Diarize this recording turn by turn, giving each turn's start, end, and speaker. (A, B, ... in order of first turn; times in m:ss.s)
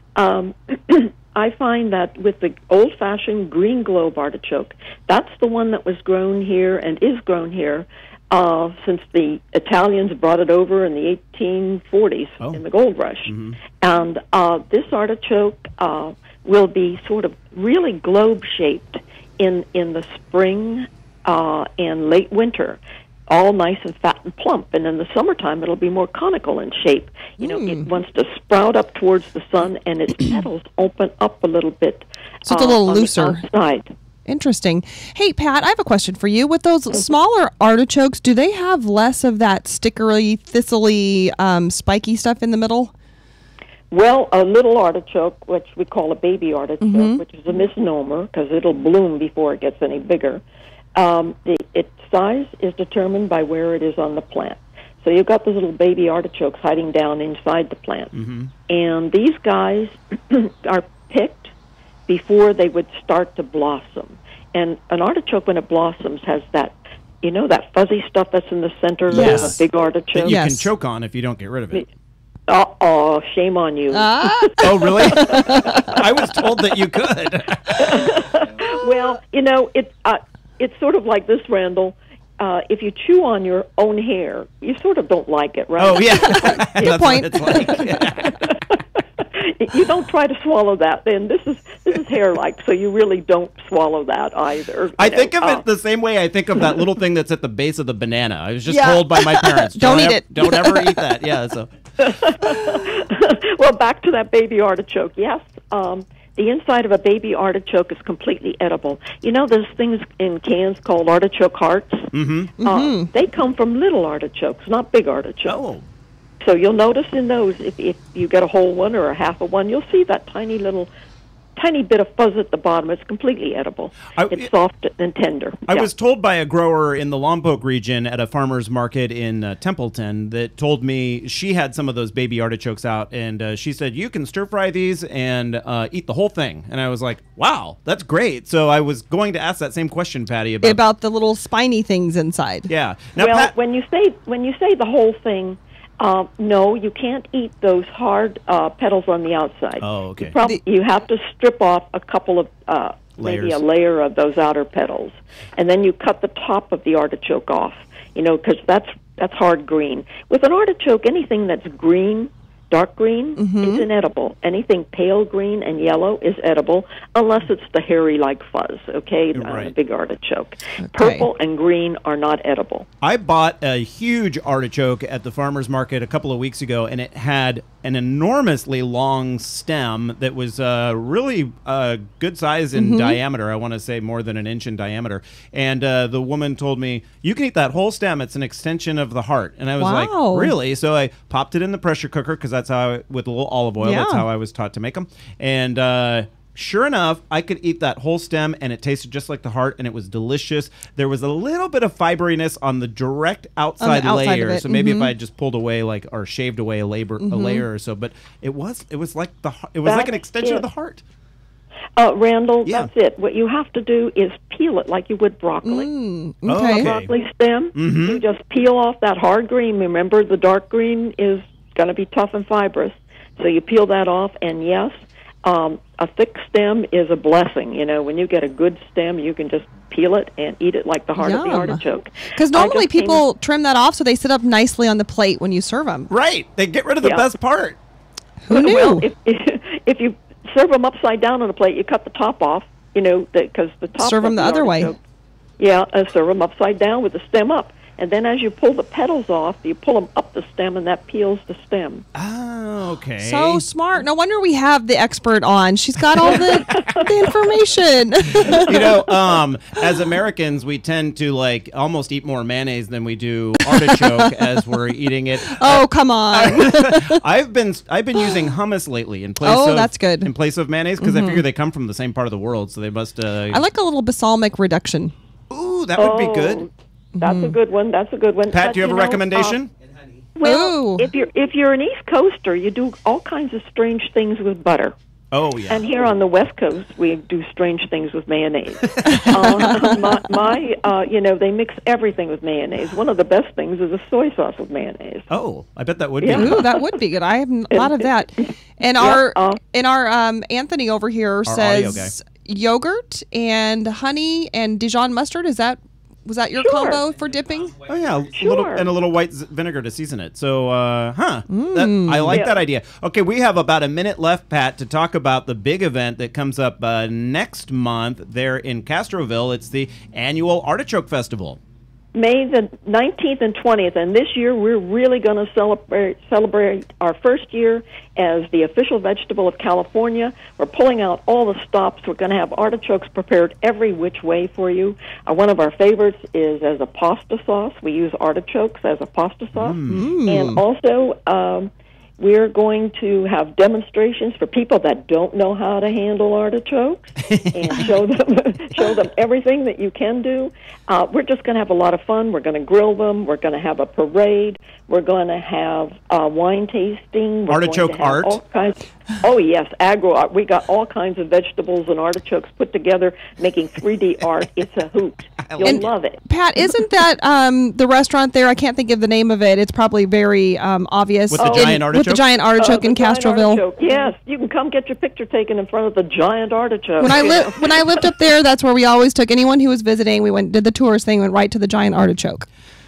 0:00.2-0:33.9 A
0:13.3-0:13.6 B
0:27.4-0:27.9 C
0:32.5-0:33.4 C
0:34.2-0:42.9 C
0:43.9-0:50.4 A
0:46.8-0:47.2 C
0:50.9-0:58.1 A
0:58.1-0:58.5 B
0:58.7-1:01.5 A
1:02.1-1:10.4 A
1:09.1-1:09.6 B
1:09.1-1:09.6 C
1:10.1-1:11.9 B
1:10.2-1:10.7 C
1:12.5-1:16.0 A
1:13.9-1:16.0 C
1:14.6-1:18.2 B
1:17.8-1:35.6 A
1:25.8-1:28.5 B
1:26.8-1:27.8 C
1:35.0-1:41.7 B
1:38.7-1:41.1 C
1:42.0-1:52.1 A
1:52.1-1:52.5 B
1:52.6-1:53.1 C
1:52.6-1:55.6 A
1:55.4-1:55.8 B
1:56.4-2:00.9 A
2:01.6-2:05.9 A
2:04.1-2:04.5 B
2:05.7-2:20.8 B
2:20.6-2:22.7 C
2:22.7-2:23.5 B
2:23.2-2:52.8 A
2:29.8-2:30.3 B
2:33.2-2:33.6 B
2:43.4-2:43.8 C
2:49.3-2:49.7 B
2:50.8-2:51.3 C
2:53.0-3:31.0 B
3:02.7-3:03.2 C
3:09.8-3:10.5 C
3:13.8-3:14.3 C
3:23.8-3:25.1 C
3:27.2-3:27.6 C
3:29.8-3:30.6 A
3:32.0-3:35.9 A
3:35.6-3:36.9 C
3:36.4-3:37.1 B
3:36.7-3:44.9 A
3:37.7-3:38.2 B
3:45.4-3:53.2 A
3:51.2-3:56.1 C
3:56.1-3:57.8 B
3:58.4-3:59.0 C
3:58.5-4:05.0 A
4:04.0-4:04.9 C
4:05.6-4:12.0 A
4:12.1-4:13.6 B
4:13.2-4:18.9 C
4:16.2-4:17.1 A
4:16.3-4:17.0 B
4:18.5-4:33.6 B
4:23.7-4:24.2 C
4:25.5-4:27.2 C
4:29.4-4:30.3 C
4:31.0-4:31.4 C
4:33.5-4:35.1 C
4:35.5-4:36.7 B
4:36.0-4:36.7 A
4:37.1-4:37.5 C
4:37.2-4:39.6 A
4:38.5-4:39.7 B
4:40.4-4:44.9 A
4:40.4-4:41.1 C
4:45.3-4:45.8 B
4:45.7-4:55.3 A
4:48.9-4:49.7 B
4:49.1-4:49.9 C
4:55.3-4:56.6 B
4:56.2-4:56.7 A
4:56.3-5:07.9 C
4:57.7-4:58.4 A
4:59.0-4:59.6 A
5:01.4-5:02.1 B
5:06.6-5:07.0 A
5:07.9-5:21.6 B
5:08.3-5:08.8 A
5:11.5-5:12.4 C
5:12.3-5:12.6 A
5:22.1-6:06.2 A
5:39.5-5:40.1 B
5:39.9-5:40.6 C
5:57.5-5:58.4 B
6:05.4-6:05.9 B
6:05.6-6:13.6 C
6:11.3-6:12.2 B
6:11.3-6:11.8 A
6:12.6-6:18.1 A
6:17.0-6:22.4 C